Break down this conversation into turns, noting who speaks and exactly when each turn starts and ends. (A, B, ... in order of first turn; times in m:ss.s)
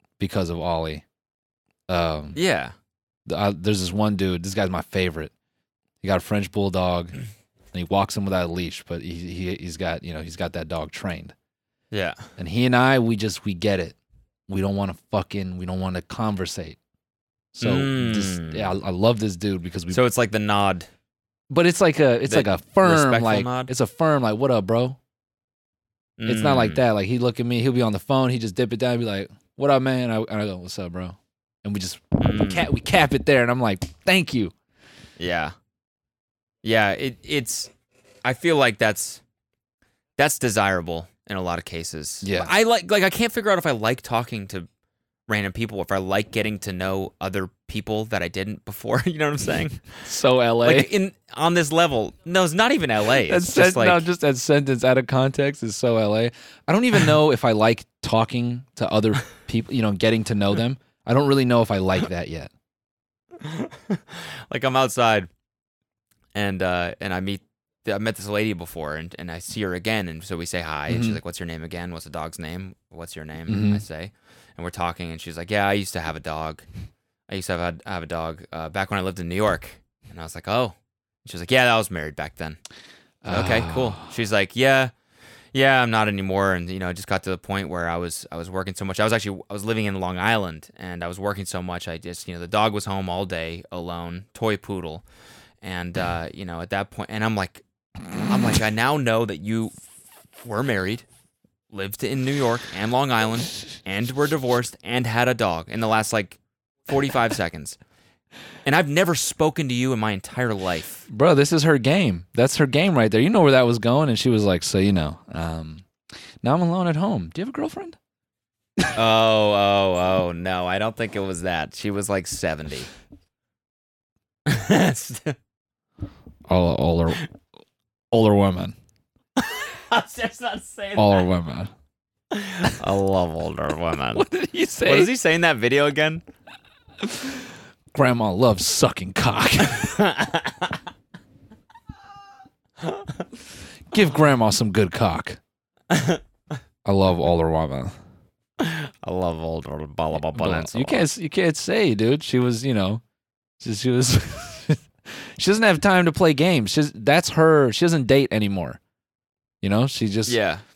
0:00.2-0:01.0 A
0:01.9-0:02.4 A
0:02.3-0:02.7 B
0:03.3-0:05.3 A
0:06.0-0:07.1 A
0:07.7-0:11.3 A
0:11.9-0:12.2 B
0:12.4-0:14.0 A
0:14.5-0:16.8 A
0:17.6-0:20.0 A
0:17.6-0:18.7 B
0:19.9-0:20.9 B
0:21.5-0:25.0 A
0:22.3-0:23.7 B
0:26.2-0:26.8 B
0:26.2-0:34.5 A
0:32.2-0:32.7 B
0:35.2-0:35.5 B
0:36.6-0:37.7 B
0:38.2-0:39.2 B
0:40.2-0:44.7 B
0:42.2-0:42.5 A
0:45.3-0:49.8 B
0:50.0-0:50.9 A
0:50.6-0:54.1 B
0:53.2-1:02.5 A
1:03.4-1:05.3 B
1:06.3-1:16.7 B
1:10.9-1:11.2 A
1:13.5-1:13.8 A
1:17.3-1:22.6 B
1:23.2-1:24.1 A
1:23.3-1:24.9 B
1:25.5-1:35.0 B
1:35.6-1:37.6 B
1:38.2-1:39.8 B
1:40.4-1:41.0 B
1:41.7-1:47.8 B
1:48.6-1:51.0 B
1:51.1-1:55.8 A
1:56.4-1:58.0 A
1:58.9-2:02.9 B
2:04.4-2:05.4 B
2:06.5-2:07.3 A
2:08.1-2:08.7 A
2:09.4-2:11.3 B
2:11.0-2:11.7 A
2:12.3-2:14.2 B
2:14.1-2:15.1 A
2:14.8-2:16.2 B
2:17.0-2:19.9 A
2:19.8-2:20.8 B
2:22.8-2:23.1 B
2:23.9-2:25.4 A
2:25.9-2:26.2 B
2:26.8-2:28.0 A
2:28.6-2:31.0 B
2:30.2-2:33.0 A
2:33.6-2:38.8 A
2:39.6-2:40.4 A
2:40.2-2:40.6 B